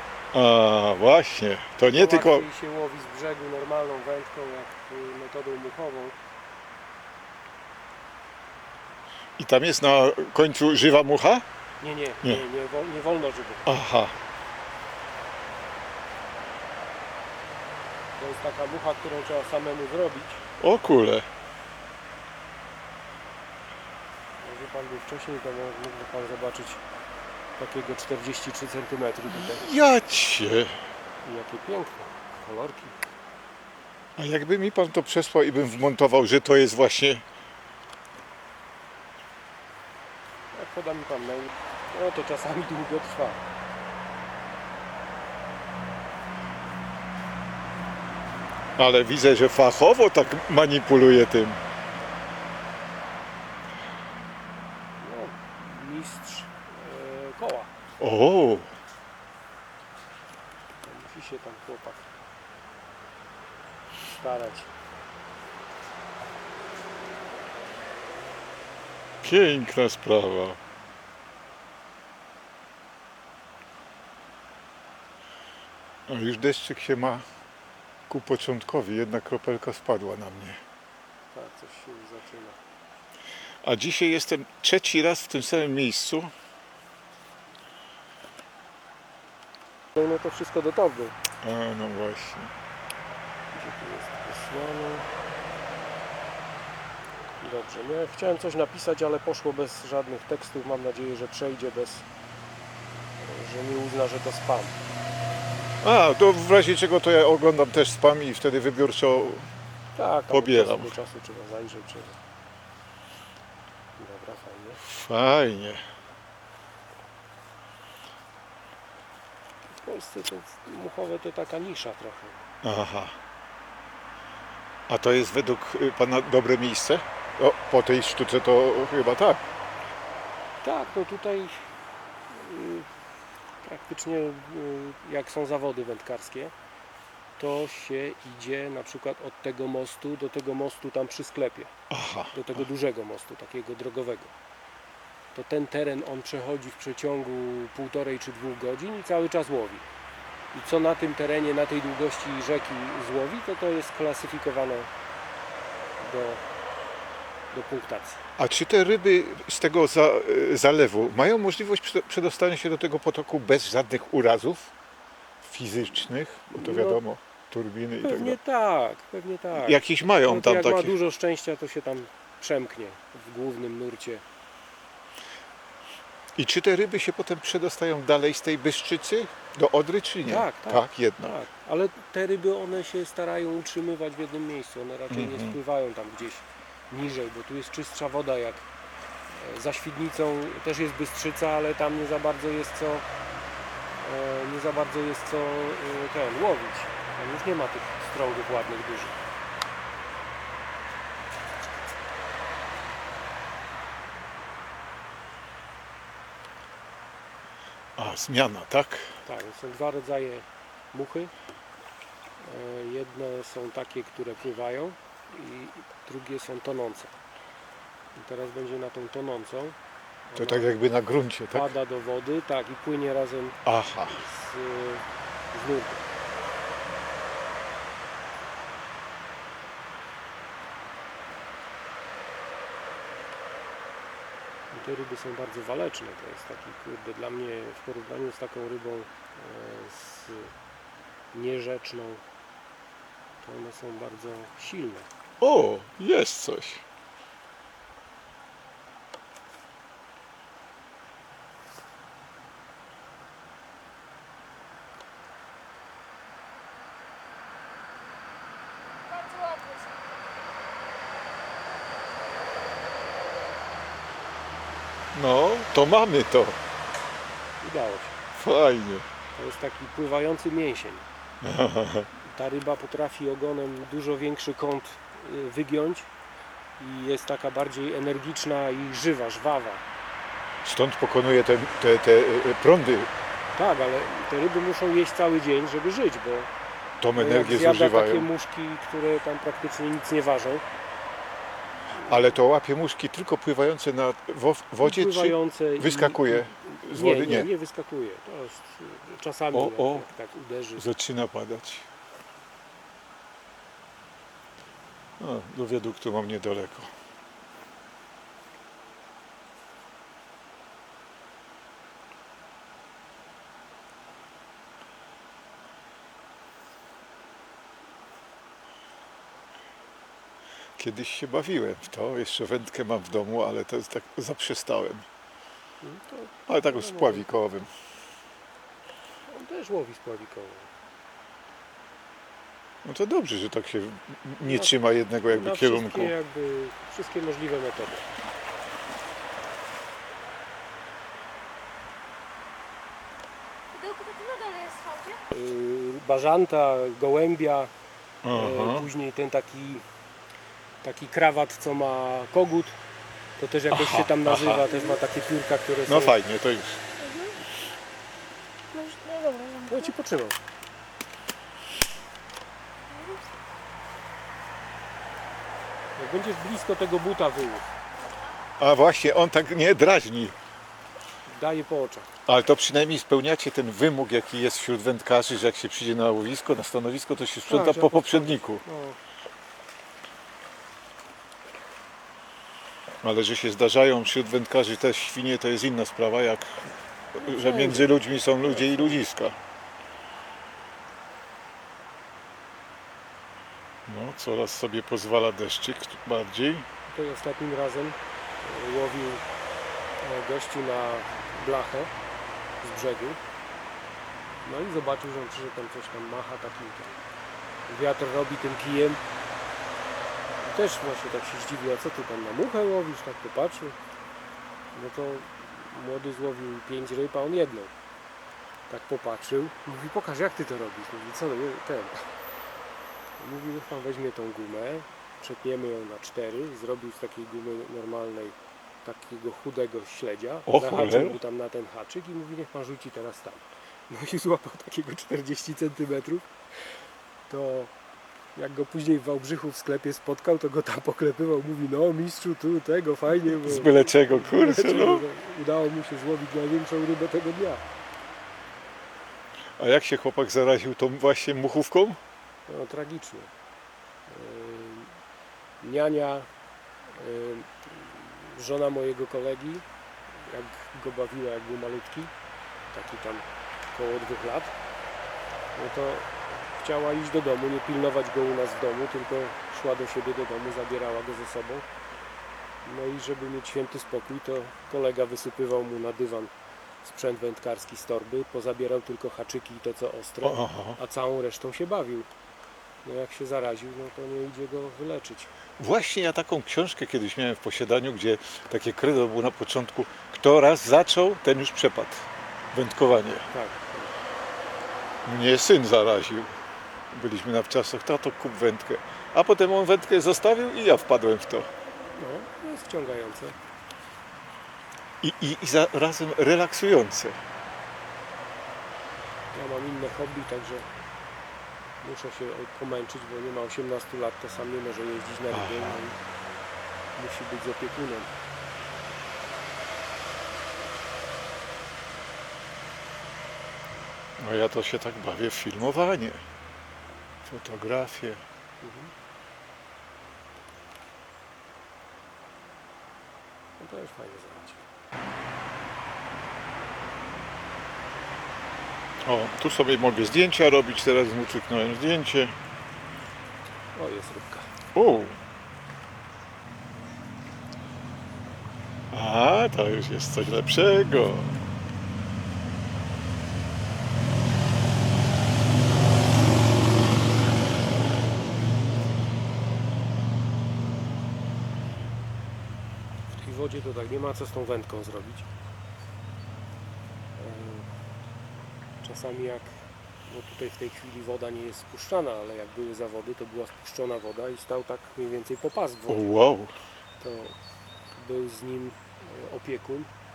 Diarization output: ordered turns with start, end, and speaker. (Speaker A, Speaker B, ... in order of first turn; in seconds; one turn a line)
Speaker A: 0.3-2.5
Speaker B: 1.8-6.2
Speaker A: 9.4-11.4
Speaker B: 11.8-13.7
Speaker A: 13.7-14.1
Speaker B: 18.2-20.4
Speaker A: 20.6-21.3
Speaker B: 24.4-26.8
Speaker B: 27.6-29.7
Speaker A: 29.3-30.8
Speaker B: 31.2-33.0
Speaker A: 34.2-37.2
Speaker B: 40.5-43.4
Speaker A: 48.8-51.6
Speaker B: 55.0-57.7
Speaker A: 58.0-58.7
Speaker B: 60.8-62.1
Speaker B: 64.2-64.7
Speaker A: 69.2-70.6
Speaker A: 76.1-77.2
Speaker A: 78.1-80.6
Speaker B: 81.3-82.6
Speaker A: 83.6-86.3
Speaker B: 89.9-91.1
Speaker A: 91.4-92.5
Speaker B: 93.5-95.1
Speaker B: 97.4-102.0
Speaker B: 103.2-104.8
Speaker A: 105.8-109.5
Speaker B: 110.0-112.2
Speaker A: 110.3-110.9
Speaker B: 114.0-114.8
Speaker A: 114.8-115.8
Speaker B: 119.8-122.4
Speaker A: 122.6-123.1
Speaker A: 124.9-129.4
Speaker B: 130.6-131.6
Speaker B: 132.3-132.9
Speaker B: 133.6-136.5
Speaker B: 137.4-141.7
Speaker A: 141.9-142.6
Speaker B: 142.3-144.3
Speaker B: 145.3-149.9
Speaker B: 150.5-154.9
Speaker B: 156.0-156.4
Speaker B: 157.5-158.2
Speaker A: 158.4-164.7
Speaker A: 165.4-168.4
Speaker B: 166.5-167.0
Speaker B: 168.0-174.2
Speaker A: 169.6-170.9
Speaker A: 176.3-181.4
Speaker B: 180.2-188.7
Speaker A: 185.1-185.6
Speaker B: 189.3-193.1
Speaker B: 194.0-199.2
Speaker A: 208.0-209.1
Speaker B: 209.2-211.3
Speaker B: 212.4-217.1
Speaker B: 218.1-219.8
Speaker B: 220.3-220.7
Speaker A: 220.4-221.7
Speaker B: 221.5-226.1
Speaker A: 223.7-224.2
Speaker B: 234.7-240.5
Speaker B: 241.3-242.2
Speaker B: 243.4-245.1
Speaker A: 245.4-246.8
Speaker C: 259.1-259.9
Speaker A: 265.1-266.6
Speaker B: 267.6-268.2
Speaker A: 268.4-269.1
Speaker B: 269.3-271.0
Speaker A: 271.4-272.1
Speaker B: 272.2-276.1
Speaker B: 276.8-279.8
Speaker A: 280.6-283.1
Speaker B: 283.5-286.5
Speaker A: 287.0-288.3
Speaker B: 287.1-290.6
Speaker A: 292.0-297.5
Speaker B: 294.8-300.9
Speaker A: 299.5-300.1
Speaker A: 300.8-301.9
Speaker A: 305.2-306.9
Speaker A: 320.8-325.0
Speaker B: 325.8-327.2
Speaker A: 326.5-327.7
Speaker B: 329.3-330.7
Speaker A: 332.8-336.1
Speaker B: 334.4-334.7
Speaker B: 335.2-338.0
Speaker C: 343.7-345.2
Speaker B: 345.1-347.7
Speaker A: 348.2-348.9
Speaker B: 348.3-349.8
Speaker B: 350.8-352.7
Speaker B: 353.4-356.2
Speaker A: 353.7-354.7
Speaker A: 355.9-356.8
Speaker C: 358.8-359.7
Speaker B: 359.6-360.4
Speaker C: 362.9-363.2
Speaker B: 365.9-367.6
Speaker A: 368.6-370.4
Speaker B: 371.3-372.1
Speaker A: 372.3-378.6
Speaker B: 377.5-379.0
Speaker A: 383.0-386.6
Speaker A: 387.1-389.4
Speaker B: 387.2-389.0
Speaker A: 393.9-396.7
Speaker B: 396.9-399.2
Speaker B: 400.0-401.9
Speaker B: 402.6-403.2
Speaker B: 404.4-407.1
Speaker B: 407.7-409.0
Speaker B: 410.4-413.8
Speaker B: 414.7-417.7
Speaker B: 418.7-422.1
Speaker B: 423.2-436.3
Speaker A: 430.5-431.2
Speaker B: 437.3-437.7
Speaker B: 438.4-447.6
Speaker A: 443.3-445.0
Speaker A: 449.6-452.0
Speaker B: 452.5-453.3
Speaker B: 454.1-455.0
Speaker B: 455.6-456.3
Speaker B: 456.9-462.1
Speaker B: 462.7-464.5
Speaker B: 465.5-471.6
Speaker B: 472.6-476.3
Speaker B: 476.8-482.1
Speaker A: 480.2-480.8
Speaker B: 482.8-485.3
Speaker A: 485.6-493.3
Speaker B: 493.3-493.9
Speaker A: 495.1-496.3
Speaker A: 496.9-501.5
Speaker B: 502.0-503.4
Speaker A: 505.0-507.2
Speaker B: 509.3-510.7
Speaker B: 511.8-516.0
Speaker A: 515.3-515.8
Speaker B: 517.0-518.1
Speaker A: 524.2-526.2
Speaker A: 527.2-528.2
Speaker B: 528.6-528.9
Speaker B: 533.6-534.6
Speaker A: 539.0-542.3
Speaker B: 543.7-544.5
Speaker A: 544.7-545.2
Speaker A: 548.9-551.4
Speaker B: 563.1-565.3
Speaker B: 567.1-567.7
Speaker B: 568.8-576.1
Speaker A: 575.9-576.5
Speaker B: 577.0-577.4
Speaker B: 577.9-579.9